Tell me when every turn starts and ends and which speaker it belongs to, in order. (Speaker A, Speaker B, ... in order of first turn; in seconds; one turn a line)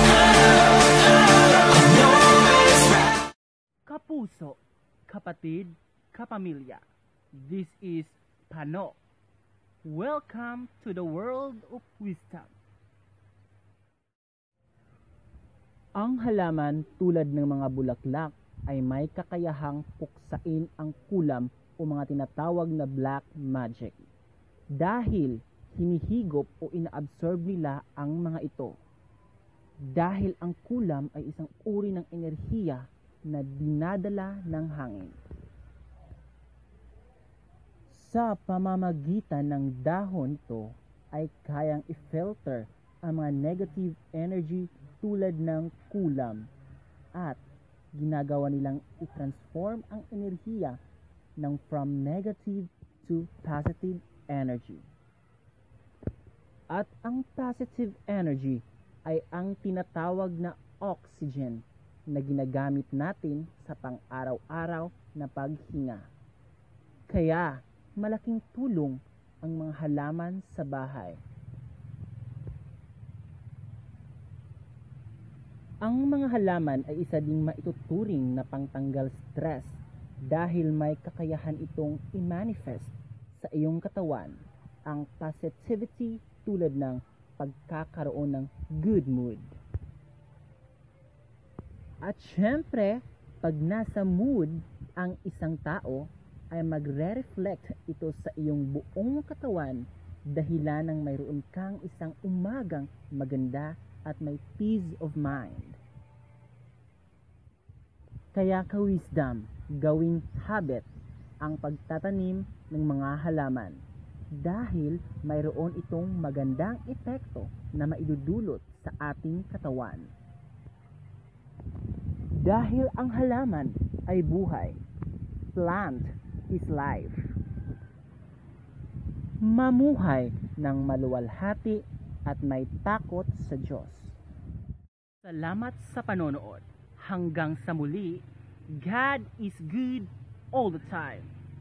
Speaker A: 3.8-9.0
Speaker A: 9.8-12.5
Speaker A: 16.0-24.1
Speaker A: 24.7-28.8
Speaker A: 29.8-35.2
Speaker A: 37.9-46.5
Speaker A: 47.1-47.4
Speaker A: 47.9-50.8
Speaker A: 51.4-54.9
Speaker A: 56.7-66.1
Speaker A: 67.1-71.2
Speaker A: 75.8-89.5
Speaker A: 92.0-105.8
Speaker A: 108.3-110.9
Speaker A: 111.4-120.1
Speaker A: 122.3-124.8
Speaker A: 125.5-127.3
Speaker A: 129.4-134.2
Speaker A: 135.2-141.3